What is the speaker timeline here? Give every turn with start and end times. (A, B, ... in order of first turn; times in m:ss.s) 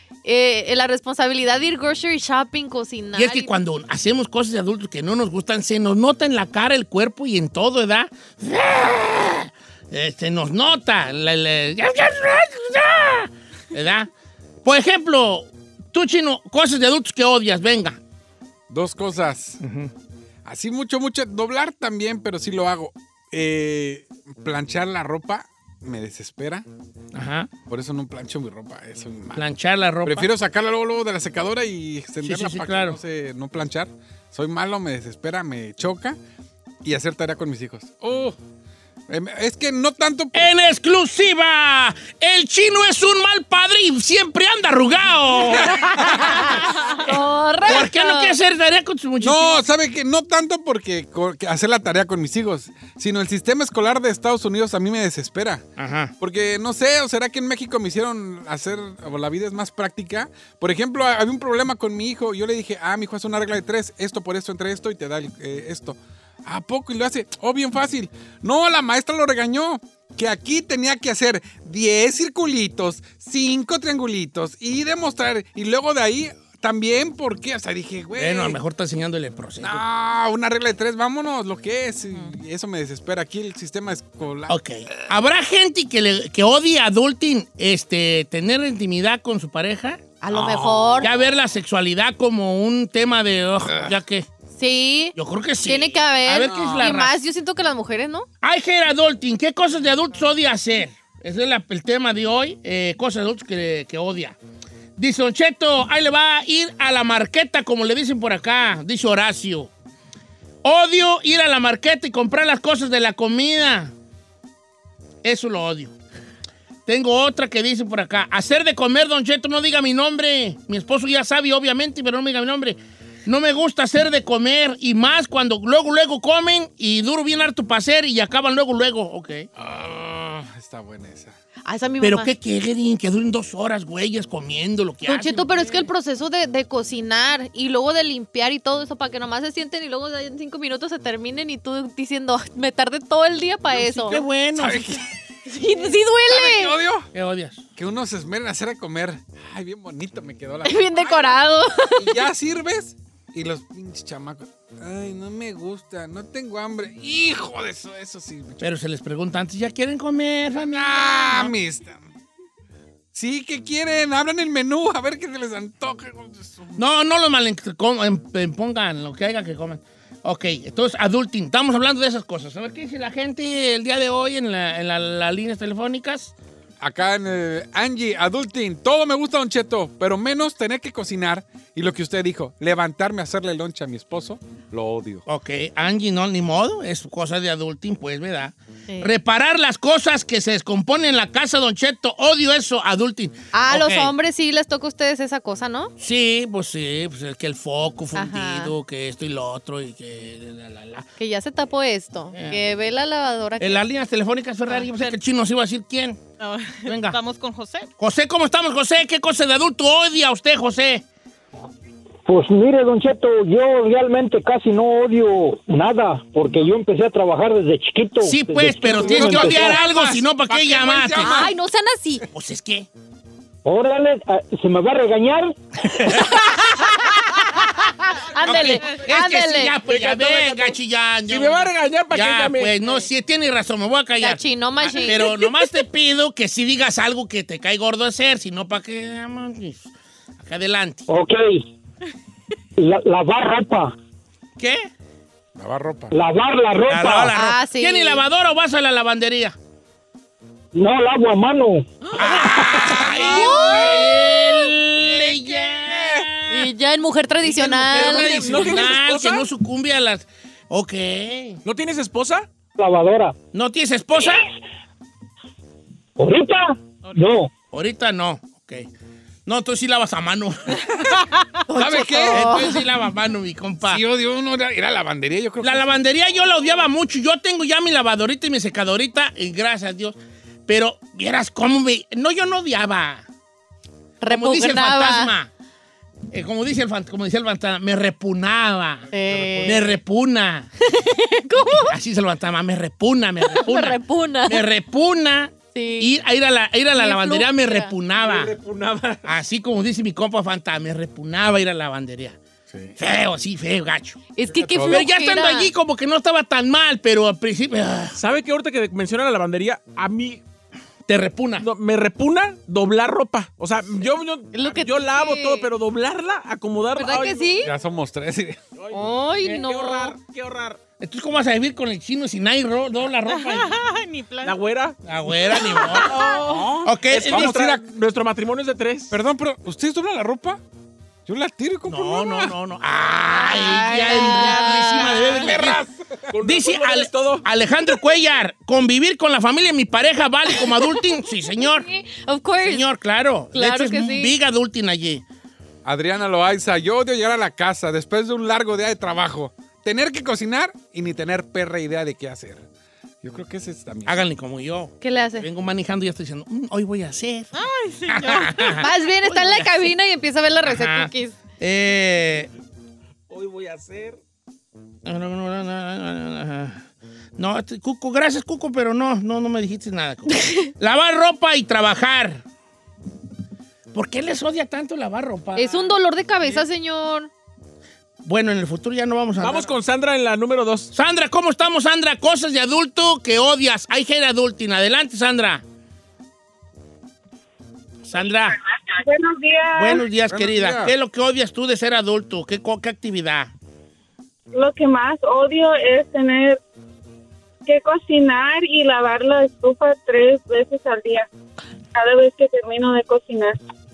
0:00.2-0:03.5 A
0:03.2-0:14.1 B
0:14.6-0:18.0 B
0:18.7-0:19.6 C
0:19.6-0:19.9 B
0:20.4-0:26.6 C
0:27.1-0:27.5 B
0:27.7-0:29.4 C
0:29.3-0:30.3 B
0:30.0-0:36.2 C
0:32.2-0:33.0 B
0:36.8-0:38.4 C
0:39.1-0:40.5 C
0:40.3-0:47.0 B
0:45.5-0:46.4 C
0:46.0-0:48.4 A
0:47.6-0:49.6 B
0:49.2-0:55.7 C
0:55.8-0:56.1 B
0:56.2-1:18.6 C
1:18.2-1:19.8 B
1:19.6-1:24.6 C
1:24.5-1:30.0 B
1:30.2-1:31.1 A
1:30.3-1:31.1 C
1:31.0-1:34.3 B
1:33.7-1:34.0 C
1:34.6-1:38.3 A
1:35.2-1:37.2 B
1:36.4-1:36.9 C
1:38.4-1:44.4 B
1:45.0-1:49.7 B
1:50.6-1:53.9 B
1:55.2-1:55.9 B
1:56.9-2:09.5 B
2:09.6-2:11.4 C
2:11.6-2:12.3 A
2:12.0-2:15.9 B
2:15.1-2:24.2 A
2:23.7-2:25.0 B
2:24.6-2:25.1 C
2:25.5-2:26.8 A
2:26.3-2:27.1 C
2:27.1-2:27.6 B
2:27.8-2:38.7 C
2:30.6-2:32.2 A
2:38.6-2:41.5 B
2:40.7-2:42.0 C
2:43.1-2:46.8 C
2:46.8-2:56.3 B
2:56.8-3:05.2 C
3:05.3-3:14.1 B
3:13.5-3:15.9 A
3:16.0-3:21.1 B
3:18.1-3:18.7 A
3:21.2-3:23.8 A
3:22.3-3:22.6 B
3:23.6-3:26.2 B
3:26.4-3:27.9 D
3:26.8-3:27.2 B
3:28.0-3:31.0 B
3:32.3-3:39.7 E
3:38.2-3:41.5 B
3:38.8-3:41.5 C
3:41.2-3:42.2 A
3:42.3-3:42.9 B
3:43.6-3:45.6 E
3:45.9-3:46.9 B
3:47.6-3:47.9 B
3:48.2-3:49.8 A
3:48.4-4:01.1 B
3:49.9-3:50.8 F
3:51.3-3:52.8 F
3:54.2-3:55.3 A
4:01.1-4:01.7 E
4:02.8-4:04.0 E
4:04.6-4:04.9 B
4:05.6-4:06.2 C
4:06.1-4:07.3 E
4:06.9-4:09.6 B
4:07.3-4:08.2 A
4:10.7-4:11.9 E
4:12.2-4:16.7 B
4:12.4-4:16.3 C
4:13.1-4:14.0 A
4:16.5-4:18.9 A
4:17.4-4:21.6 B
4:17.9-4:19.5 F
4:21.6-4:22.5 F
4:22.8-4:23.4 E
4:23.5-4:24.5 B
4:26.2-4:27.5 E
4:27.7-4:28.9 B
4:29.5-4:31.0 B
4:31.7-4:32.8 A
4:31.8-4:32.5 C
4:32.3-4:34.0 B
4:33.8-4:35.9 C
4:35.6-4:43.3 B
4:44.2-4:45.3 A
4:44.3-4:45.5 B
4:46.3-4:49.1 B
4:49.1-4:49.8 A
4:49.1-4:49.8 C
4:49.6-4:50.7 B
4:50.8-4:52.0 A
4:51.8-4:58.6 B
4:53.4-4:54.7 A
4:55.7-4:56.1 A
4:57.0-4:57.9 A
4:58.2-4:59.3 F
4:59.2-5:02.4 B
5:02.7-5:03.0 C
5:03.0-5:04.2 B
5:04.4-5:05.7 A
5:04.5-5:05.1 C
5:04.9-5:08.2 B
5:08.2-5:10.4 F
5:11.1-5:11.7 B
5:11.6-5:17.7 F
5:14.5-5:15.7 A
5:17.0-5:17.7 A
5:17.6-5:18.6 C
5:18.8-5:20.8 F
5:18.9-5:20.2 A
5:21.0-5:23.8 B
5:23.3-5:24.6 D
5:24.4-5:25.0 F
5:25.0-5:26.2 B
5:25.5-5:29.1 F
5:26.4-5:27.8 C
5:26.8-5:27.6 B
5:29.1-5:30.6 C
5:31.3-5:32.5 C
5:31.9-5:35.8 B
5:33.3-5:35.5 A
5:35.0-5:36.3 C
5:36.3-5:37.5 F
5:36.4-5:41.9 B
5:40.9-5:42.9 A
5:42.6-5:45.2 B
5:43.5-5:44.3 A
5:45.8-5:52.6 C
5:53.2-5:54.3 C
5:54.1-5:57.5 B
5:55.0-5:55.5 A
5:57.5-5:58.9 D
5:58.1-5:59.9 B
5:58.8-6:01.4 A
6:00.6-6:02.5 B
6:03.3-6:04.2 F
6:05.0-6:06.8 B
6:07.4-6:12.4 B
6:10.3-6:10.7 A
6:13.9-6:15.9 B
6:15.6-6:17.3 A
6:18.2-6:19.8 B
6:19.4-6:20.9 F
6:20.9-6:25.6 B
6:28.0-6:28.6 B
6:28.6-6:30.0 G
6:29.8-6:33.5 B
6:30.3-6:30.9 C
6:34.5-6:36.6 G
6:37.6-6:41.3 G
6:42.0-6:43.6 G